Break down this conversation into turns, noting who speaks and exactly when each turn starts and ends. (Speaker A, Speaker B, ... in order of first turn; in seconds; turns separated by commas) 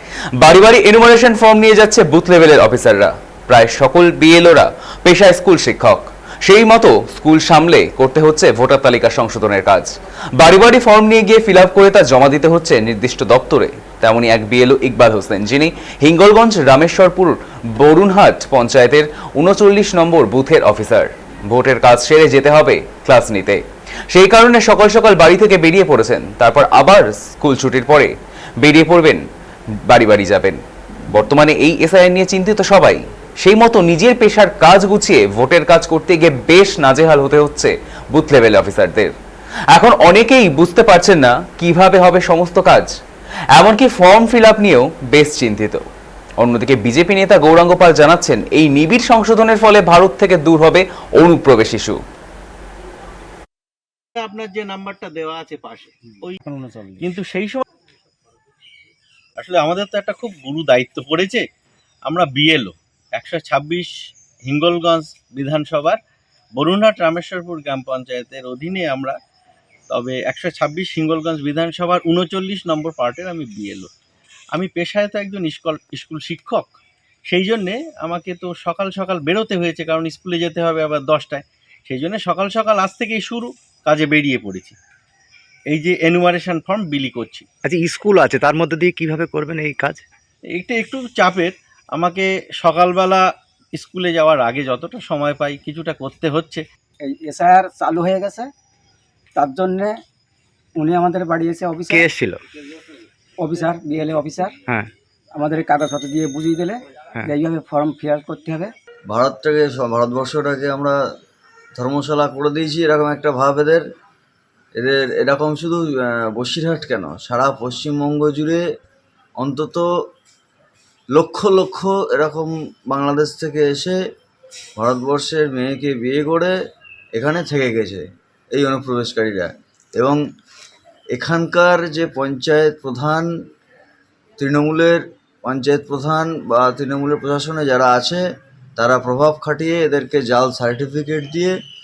Speaker A: 0.4-23.6, Speaker A: 24.1-29.2, Speaker A: 29.9-30.6, Speaker A: 31.1-39.1, Speaker A: 39.7-42.9, Speaker A: 43.5-45.8, Speaker A: 46.4-52.0, Speaker B: 54.2-56.4, Speaker C: 56.5-57.1, Speaker B: 57.0-57.6, Speaker B: 59.4-61.4, Speaker B: 62.1-63.9, Speaker B: 64.5-66.0, Speaker B: 66.6-69.2, Speaker B: 69.9-73.9, Speaker B: 74.5-76.7, Speaker B: 77.3-84.8, Speaker B: 85.7-87.5, Speaker D: 87.7-90.0, Speaker B: 90.5-93.2, Speaker B: 93.8-96.6, Speaker C: 97.0-98.5, Speaker C: 99.3-100.0, Speaker C: 100.8-102.0, Speaker D: 101.9-102.4, Speaker C: 103.4-104.5, Speaker C: 105.3-108.7, Speaker E: 109.1-111.0, Speaker E: 111.8-113.8, Speaker E: 114.8-118.6, Speaker E: 119.4-119.8, Speaker E: 121.1-124.0, Speaker E: 124.8-126.5, Speaker E: 127.2-130.2, Speaker E: 131.1-133.3, Speaker E: 134.4-138.2, Speaker E: 138.8-141.5